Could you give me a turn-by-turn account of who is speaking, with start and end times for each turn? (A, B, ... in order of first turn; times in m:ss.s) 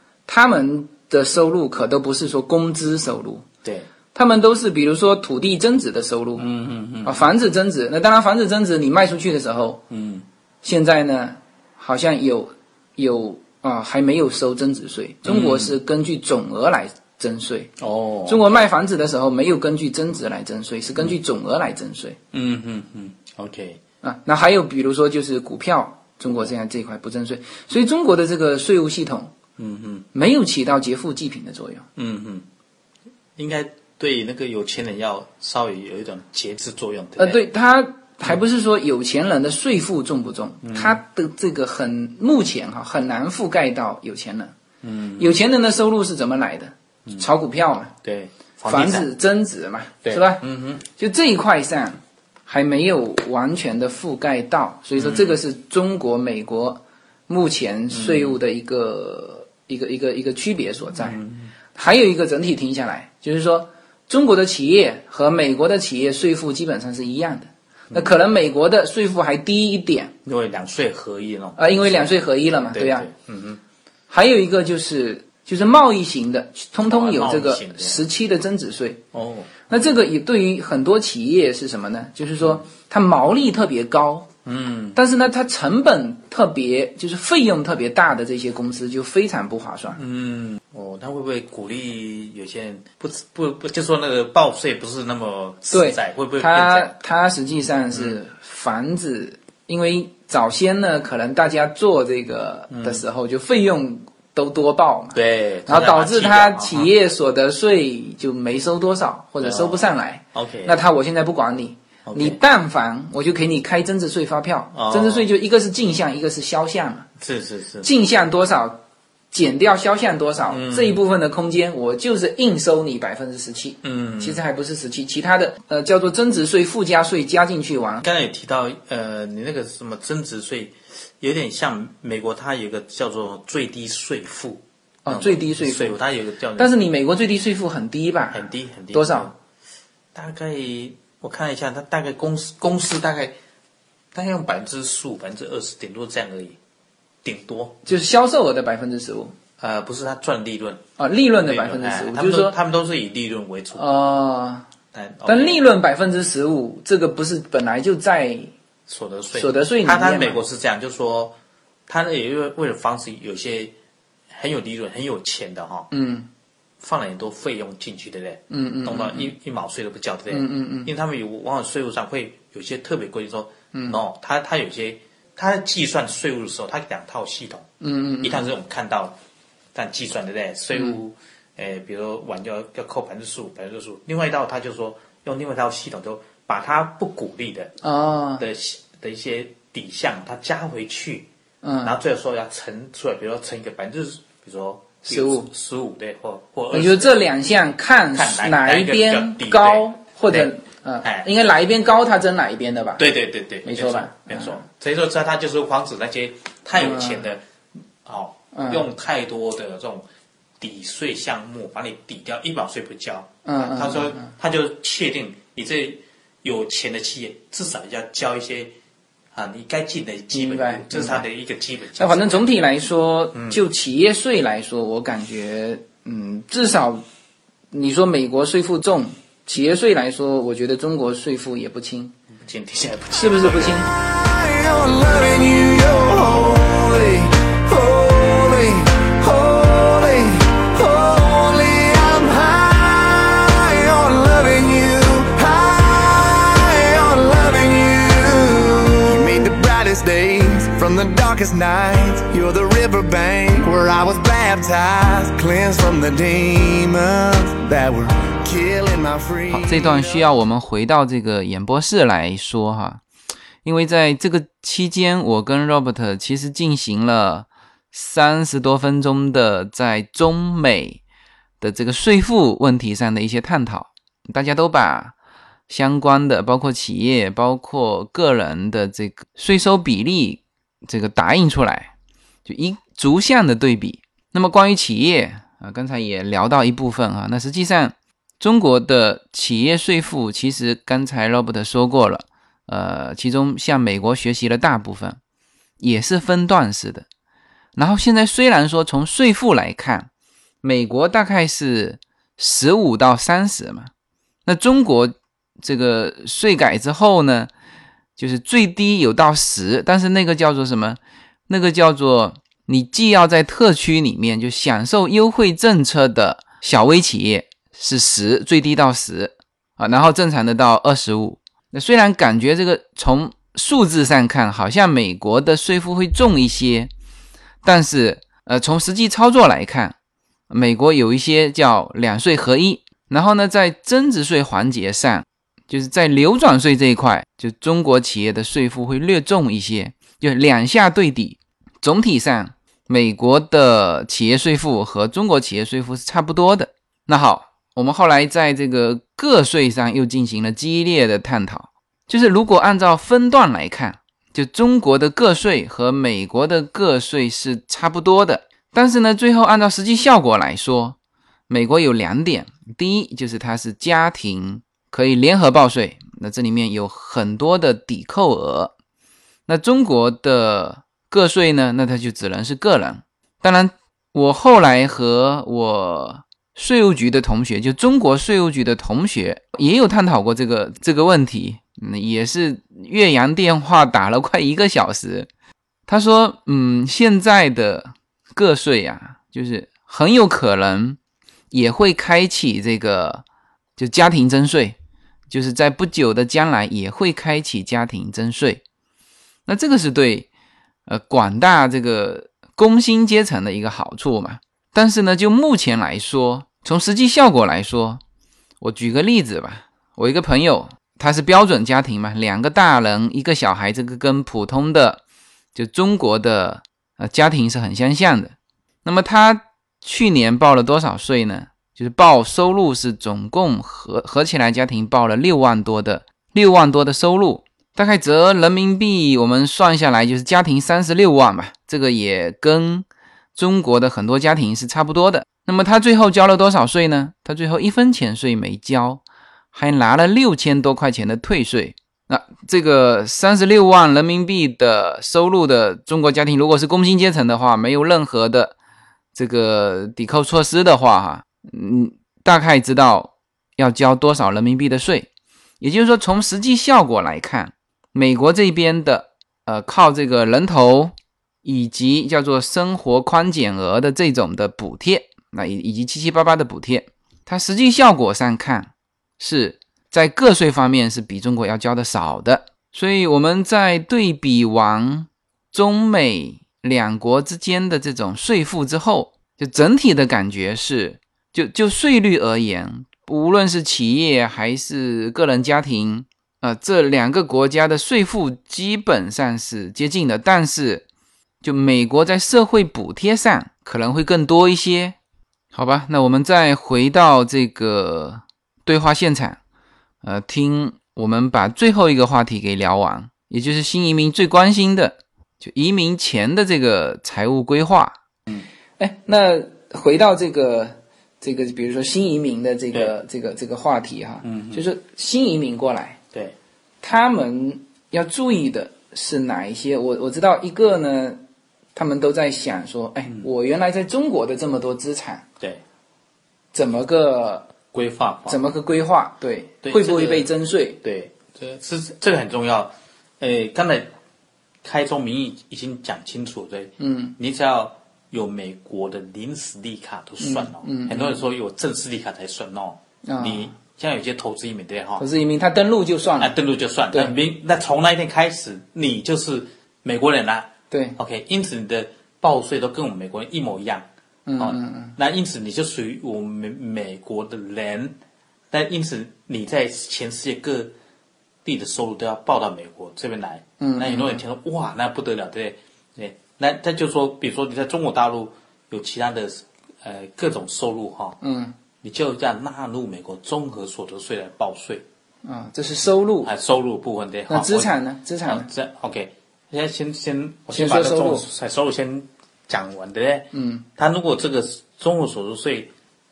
0:00.3-0:03.4 A
0:03.6-0:03.9 B
0:04.1-0:06.4 A
0:06.4-0:07.3 B
0:07.0-0:09.8 A
0:09.9-0:10.2 B
0:10.6-0:17.7 A
0:15.2-0:15.8 B
0:17.8-0:18.6 B
0:18.3-0:22.2 A
0:22.3-0:23.8 B
0:24.0-0:29.3 A
0:26.3-0:26.5 B
0:29.6-0:30.1 B
0:30.1-0:31.9 A
0:32.0-0:32.5 B
0:33.4-0:37.4 B
0:37.2-0:44.5 A
0:40.6-0:41.0 B
0:44.8-0:45.4 B
0:45.2-0:47.9 A
0:48.0-0:49.1 B
0:48.7-0:50.4 A
0:50.0-0:50.8 B
0:51.0-1:01.2 A
0:55.0-0:55.4 B
0:57.9-0:58.4 B
1:01.0-1:01.5 B
1:01.8-1:10.1 A
1:07.9-1:08.2 B
1:10.2-1:13.6 B
1:11.6-1:13.1 A
1:14.1-1:19.0 A
1:16.8-1:18.1 B
1:19.1-1:19.9 B
1:19.7-1:24.3 A
1:22.4-1:22.6 B
1:24.4-1:25.0 B
1:25.0-1:30.0 A
1:29.9-1:37.0 B
1:35.7-1:57.1 A
1:37.9-1:38.2 B
1:42.7-1:43.1 B
1:45.1-1:46.9 B
1:49.4-1:50.8 B
1:52.0-1:52.4 B
1:54.7-1:55.3 B
1:57.2-1:57.9 B
1:57.8-1:58.8 A
1:59.3-2:08.0 A
2:00.5-2:01.0 B
2:03.8-2:04.4 B
2:08.0-2:16.8 B
2:15.0-2:16.0 A
2:16.6-2:19.3 A
2:18.3-2:19.4 B
2:20.1-2:23.4 B
2:24.1-2:26.6 B
2:27.2-2:27.8 B
2:27.8-2:29.3 A
2:29.6-2:30.8 B
2:31.0-2:32.6 A
2:31.4-2:33.9 B
2:33.8-2:34.7 A
2:34.9-2:35.6 B
2:35.3-2:38.5 A
2:38.9-2:41.4 B
2:39.3-2:40.4 A
2:41.9-2:43.8 B
2:44.3-2:45.9 B
2:45.9-2:46.3 A
2:46.8-2:57.7 B
2:48.5-2:49.3 A
2:50.3-2:50.9 A
2:57.8-2:58.4 A
2:58.2-2:59.2 B
2:59.7-3:07.8 B
3:07.8-3:08.4 A
3:08.4-3:11.3 B
3:11.6-3:12.0 A
3:11.8-3:17.3 B
3:15.1-3:15.5 A
3:16.7-3:23.0 A
3:18.1-3:21.3 B
3:23.0-3:27.4 B
3:23.6-3:24.6 A
3:26.8-3:27.3 A
3:28.0-3:30.0 B
3:28.5-3:28.9 A
3:30.6-3:38.8 B
3:33.4-3:34.3 A
3:39.3-3:42.5 B
3:40.3-3:41.2 A
3:42.0-3:47.0 A
3:43.3-3:43.6 B
3:47.7-3:52.1 A
3:52.4-3:53.9 B
3:53.1-3:53.9 A
3:53.9-4:20.2 C
4:19.5-4:23.0 A
4:23.6-4:31.0 A
4:31.6-4:35.2 A
4:35.7-4:41.9 A
4:42.5-4:55.2 A
4:55.8-4:57.1 A
4:57.8-5:00.1 A
5:00.6-5:03.9 A
5:04.5-5:07.5 A
5:08.2-5:26.9 A
5:27.6-5:30.0 A
5:30.5-6:01.0 A
6:01.5-6:08.7 A
6:09.5-6:25.3 A
6:25.9-6:31.0 A
6:31.5-6:33.2 A
6:33.8-6:34.8 A
6:35.3-6:38.6 A
6:39.5-6:40.3 A
6:40.9-6:48.0 A
6:48.6-6:55.0 A
6:55.6-7:28.6 A
7:29.2-7:35.1 A
7:35.6-7:40.9 A
7:41.4-8:10.8 A
8:11.4-8:15.0 A
8:15.5-8:19.4 A
8:20.0-8:28.0 A
8:28.8-8:36.0 A
8:34.2-8:34.6 B
8:36.8-8:41.2 A
8:41.8-8:45.2 A
8:46.5-8:47.5 A
8:47.7-8:48.4 B
8:48.3-8:50.8 A
8:49.6-8:50.3 B
8:50.8-8:53.9 B
8:54.6-9:05.1 B
8:56.8-8:57.2 A
9:00.2-9:01.2 A
9:03.0-9:03.5 A
9:05.0-9:06.3 A
9:06.2-9:13.9 B
9:10.7-9:11.0 A
9:14.3-9:15.0 A
9:14.4-9:18.0 B
9:18.5-9:20.7 B
9:21.4-9:31.2 B
9:23.6-9:24.2 A
9:31.2-9:31.6 A
9:31.8-9:34.8 B
9:35.2-9:36.3 A
9:36.2-9:37.7 B
9:37.3-9:38.5 A
9:38.2-9:45.7 B
9:40.5-9:41.3 A
9:43.3-9:43.6 A